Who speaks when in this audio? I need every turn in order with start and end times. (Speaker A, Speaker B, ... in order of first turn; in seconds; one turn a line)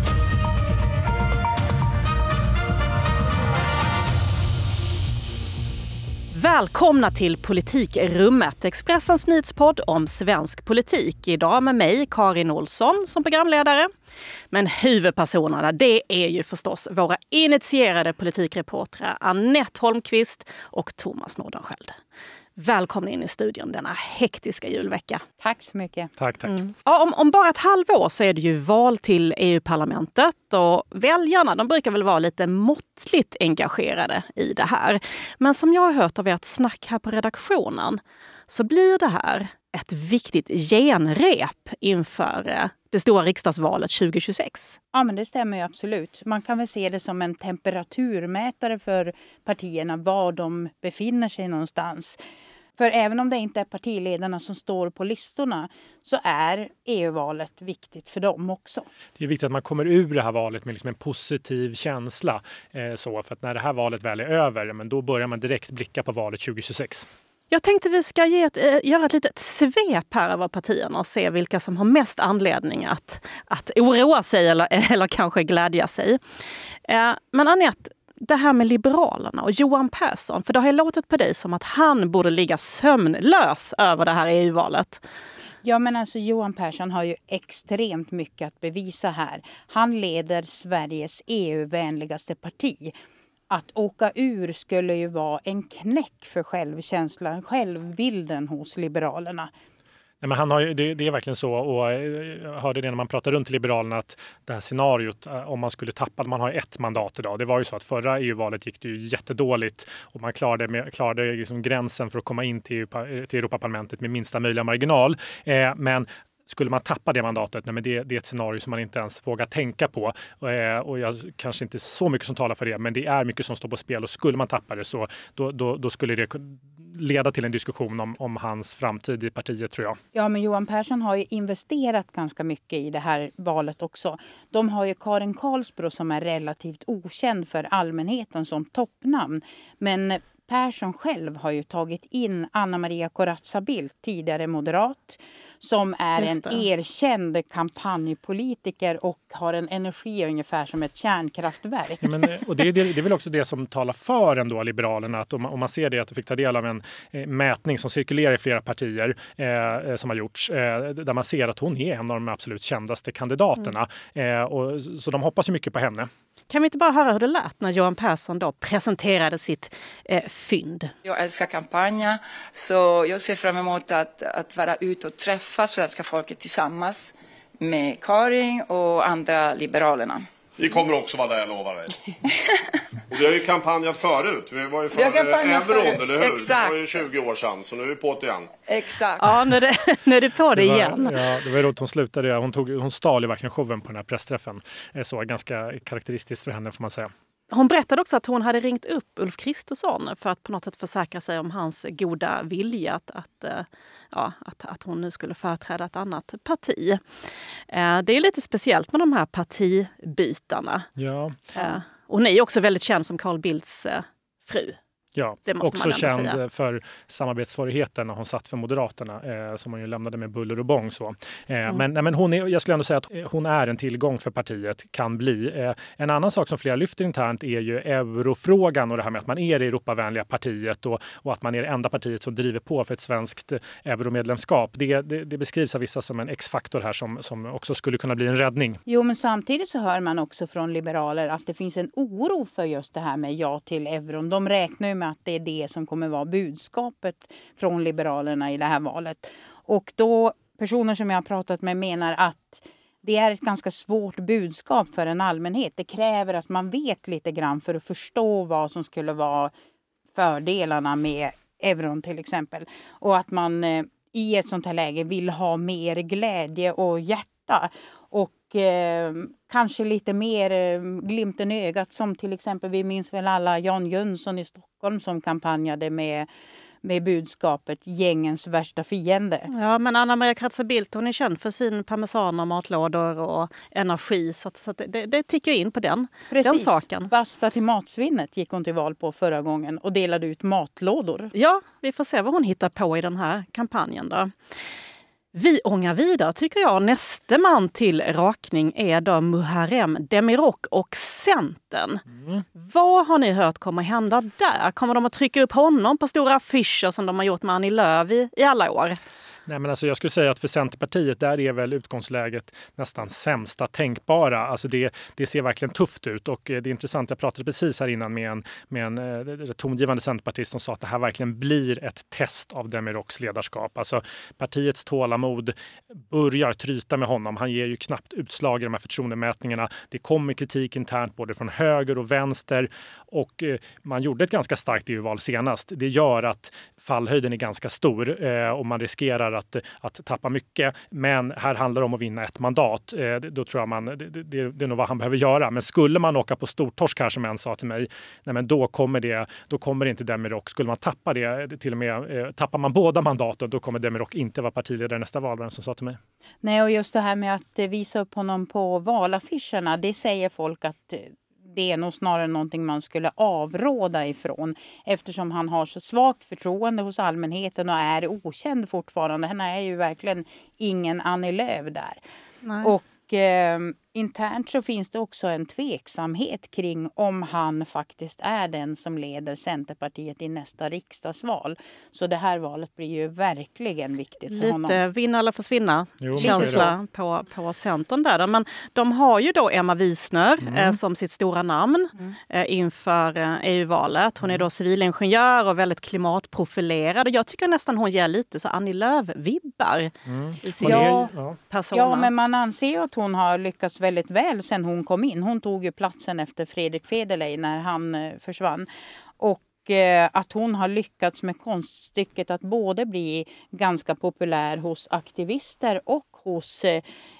Speaker A: 6.3-13.9
Speaker A: 14.5-22.0
Speaker A: 22.6-25.2
Speaker B: 25.4-26.1
Speaker C: 26.2-26.6
Speaker A: 26.5-44.8
Speaker B: 44.9-52.2
Speaker B: 52.8-58.9
Speaker C: 59.2-67.1
Speaker A: 67.5-76.2
Speaker A: 76.9-85.0
Speaker B: 85.6-92.9
Speaker B: 93.5-99.5
Speaker C: 100.2-130.0
Speaker B: 130.1-152.5
Speaker A: 146.2-146.6
Speaker C: 152.0-166.1
Speaker A: 166.5-170.9
Speaker D: 171.0-180.3
Speaker E: 180.6-181.9
Speaker E: 183.1-188.5
Speaker D: 184.9-186.9
Speaker D: 188.7-189.4
Speaker A: 189.2-191.2
Speaker C: 190.5-197.1
Speaker A: 197.5-207.0
Speaker A: 207.7-210.9
Speaker C: 211.0-211.4
Speaker A: 211.5-214.8
Speaker C: 215.1-238.8
Speaker A: 215.5-216.4
Speaker B: 238.8-259.5
Speaker B: 260.1-276.3
Speaker B: 276.8-279.5
Speaker A: 279.5-287.1
Speaker B: 286.3-291.3
Speaker A: 291.3-294.3
Speaker A: 295.3-302.0
Speaker C: 302.1-302.4
Speaker A: 302.5-309.0
Speaker C: 309.5-356.0
Speaker B: 356.4-372.0
Speaker A: 372.4-372.7
Speaker B: 372.6-384.8
Speaker A: 384.3-401.0
Speaker C: 386.0-386.7
Speaker B: 386.2-386.7
Speaker C: 390.4-390.8
Speaker C: 400.1-401.4
Speaker B: 400.6-401.1
Speaker A: 401.5-402.1
Speaker B: 401.7-408.7
Speaker B: 409.2-416.8